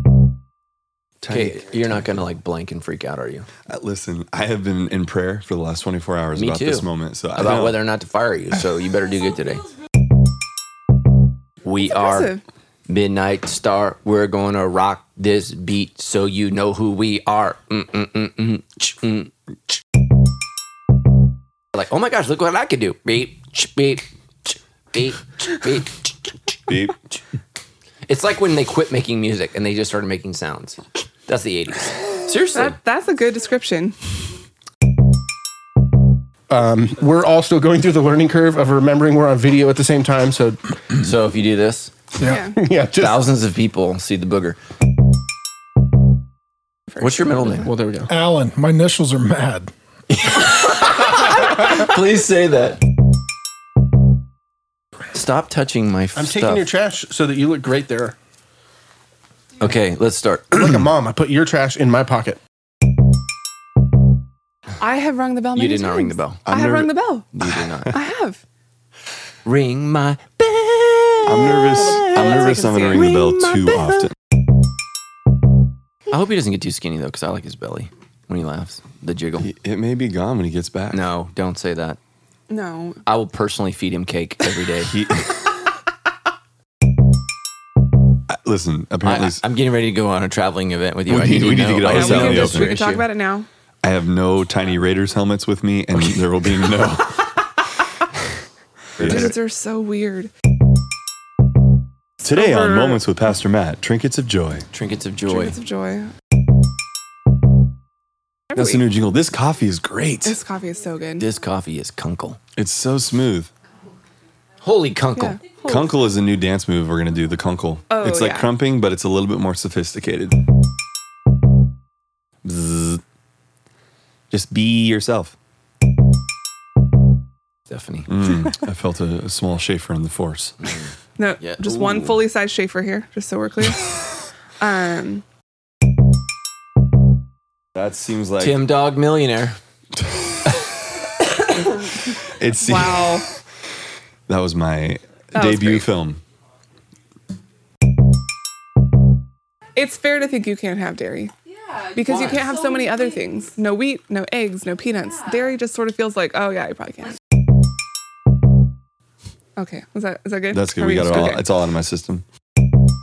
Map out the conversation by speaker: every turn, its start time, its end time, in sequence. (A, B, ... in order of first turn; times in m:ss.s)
0:01.2-0:02.0 A
0:01.3-0:03.5 B
0:03.7-0:07.8 A
0:06.3-0:09.6 B
0:11.6-0:12.3 B
0:11.8-0:12.4 C
0:12.9-0:19.3 B
0:21.7-0:26.3 B
0:26.7-0:27.0 A
0:28.1-0:32.8 B
0:32.5-0:34.0 C
0:36.5-0:40.6 D
0:41.0-0:41.9 B
0:42.2-0:42.5 E
0:42.2-0:42.6 C
0:42.5-0:43.3 D
0:42.9-0:44.6 B
0:47.0-0:47.7 B
0:47.5-0:48.1 D
0:48.1-0:49.7 E
0:50.1-0:52.8 B
0:55.1-0:56.7 B
0:56.1-0:58.2 D
0:59.6-1:00.8 B
1:00.5-1:02.4 D
1:04.8-1:07.3 C
1:05.5-1:06.4 B
1:06.4-1:07.0 A
1:07.3-1:07.9 B
1:07.9-1:08.4 C
1:09.4-1:14.1 B
1:11.2-1:14.1 A
1:11.6-1:13.1 C
1:16.1-1:19.5 B
1:19.4-1:21.0 A
1:20.9-1:22.0 B
1:22.5-1:23.0 C
1:23.0-1:25.0 B
1:24.8-1:25.4 A
1:28.3-1:29.4 A
1:29.0-1:33.0 B
1:31.1-1:32.8 A
1:31.8-1:33.5 C
1:33.8-1:37.3 A
1:39.0-1:39.3 A
1:39.0-1:39.3 B
1:39.0-1:40.3 C
1:42.2-1:44.6 A
1:42.3-1:43.0 C
1:44.7-1:45.6 B
1:45.3-1:46.1 C
1:48.5-1:48.8 C
1:48.5-1:50.4 A
1:50.2-1:51.3 C
1:51.2-1:52.4 B
1:52.6-1:53.5 A
1:54.6-1:55.4 B
1:55.2-1:55.9 C
1:55.6-2:00.4 A
1:57.9-1:58.5 C
2:02.4-2:03.0 A
2:04.3-2:05.3 A
2:07.7-2:08.1 B
2:08.1-2:10.7 A
2:10.6-2:12.2 B
2:11.2-2:14.1 C
2:14.6-2:15.2 C
2:17.7-2:18.7 A
2:18.4-2:19.6 B
2:22.2-2:23.2 A
2:22.6-2:23.2 C
2:24.3-2:26.2 A
2:25.3-2:25.8 C
2:29.8-2:37.2 C
2:39.6-2:41.4 C
2:40.5-2:42.2 A